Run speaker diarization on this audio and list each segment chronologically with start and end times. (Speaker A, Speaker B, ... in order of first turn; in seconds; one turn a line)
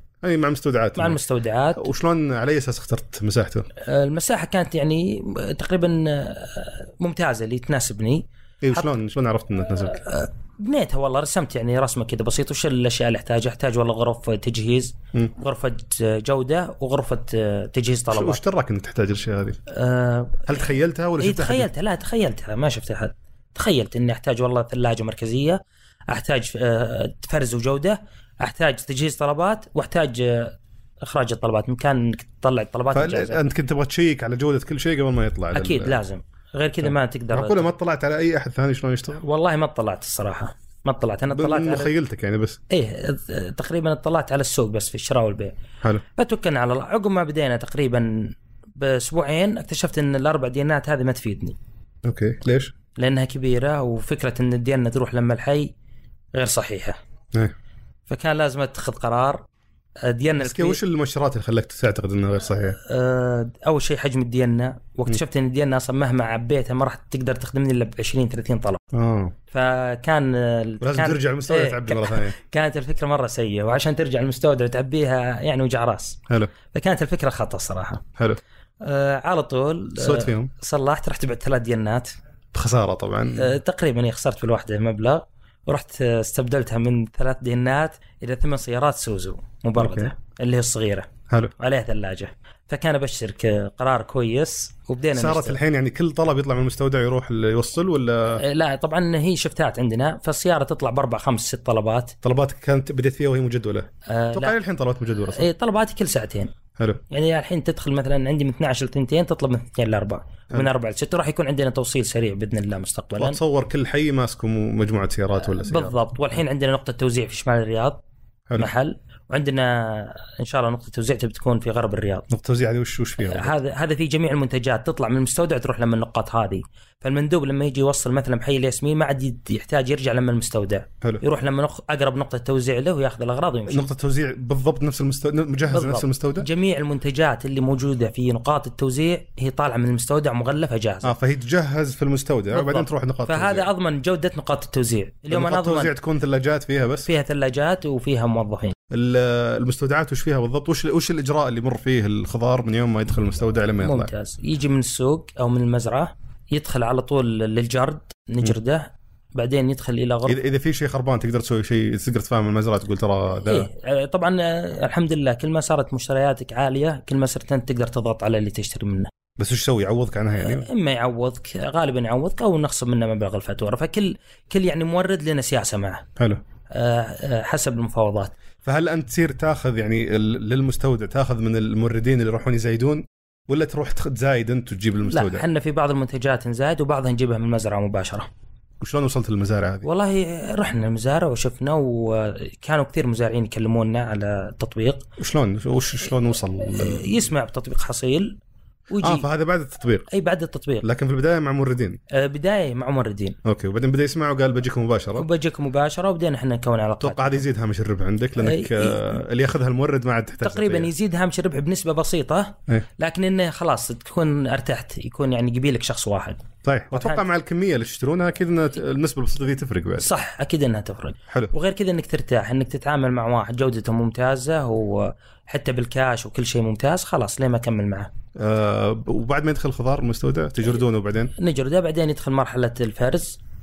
Speaker A: 0.2-1.2
Speaker B: 0.9-1.9
Speaker A: 1.7-3.7
Speaker B: 3.8-8.9
Speaker A: 8.6-10.0
Speaker B: 9.8-18.4
Speaker A: 18.1-19.6
Speaker B: 19.7-33.4
Speaker A: 20.5-21.7
Speaker A: 32.9-36.0
Speaker B: 35.5-37.7
Speaker A: 36.8-39.2
Speaker B: 39.2-41.9
Speaker A: 41.3-42.6
Speaker B: 42.7-45.5
Speaker B: 46.1-51.6
Speaker A: 52.0-52.7
Speaker B: 53.0-55.7
Speaker B: 56.3-57.0
Speaker B: 58.1-59.4
Speaker B: 60.0-60.8
Speaker A: 60.4-62.8
Speaker B: 62.8-68.8
Speaker A: 68.9-69.3
Speaker B: 69.5-76.2
Speaker A: 70.8-72.3
Speaker B: 76.7-78.0
Speaker B: 78.8-82.1
Speaker A: 80.0-80.5
Speaker A: 82.5-83.5
Speaker B: 83.3-95.6
Speaker A: 89.8-90.1
Speaker A: 95.1-98.4
Speaker B: 98.4-102.1
Speaker A: 102.2-105.5
Speaker B: 104.0-104.5
Speaker B: 105.3-106.5
Speaker A: 106.8-107.0
Speaker B: 107.1-113.4
Speaker A: 113.2-116.0
Speaker B: 115.5-118.0
Speaker B: 118.6-122.2
Speaker A: 122.3-123.5
Speaker B: 123.2-133.8
Speaker A: 133.7-136.5
Speaker B: 135.7-141.1
Speaker A: 141.0-143.7
Speaker B: 142.5-145.9
Speaker A: 145.3-147.1
Speaker B: 147.1-148.8
Speaker A: 148.9-154.1
Speaker B: 153.8-160.4
Speaker A: 160.2-163.7
Speaker B: 163.4-169.1
Speaker A: 169.4-170.7
Speaker B: 170.4-176.1
Speaker B: 176.7-178.3
Speaker A: 178.6-185.4
Speaker B: 185.1-188.3
Speaker A: 188.8-189.9
Speaker B: 189.8-195.1
Speaker A: 195.2-197.3
Speaker B: 196.6-198.4
Speaker B: 198.9-199.3
Speaker A: 199.0-200.1
Speaker B: 200.1-200.9
Speaker A: 200.8-202.0
Speaker B: 202.1-203.4
Speaker A: 203.4-205.3
Speaker B: 205.2-207.4
Speaker A: 207.0-210.9
Speaker B: 208.4-209.2
Speaker B: 210.4-217.2
Speaker A: 216.6-220.1
Speaker B: 220.0-228.1
Speaker A: 228.3-231.3
Speaker B: 231.4-233.4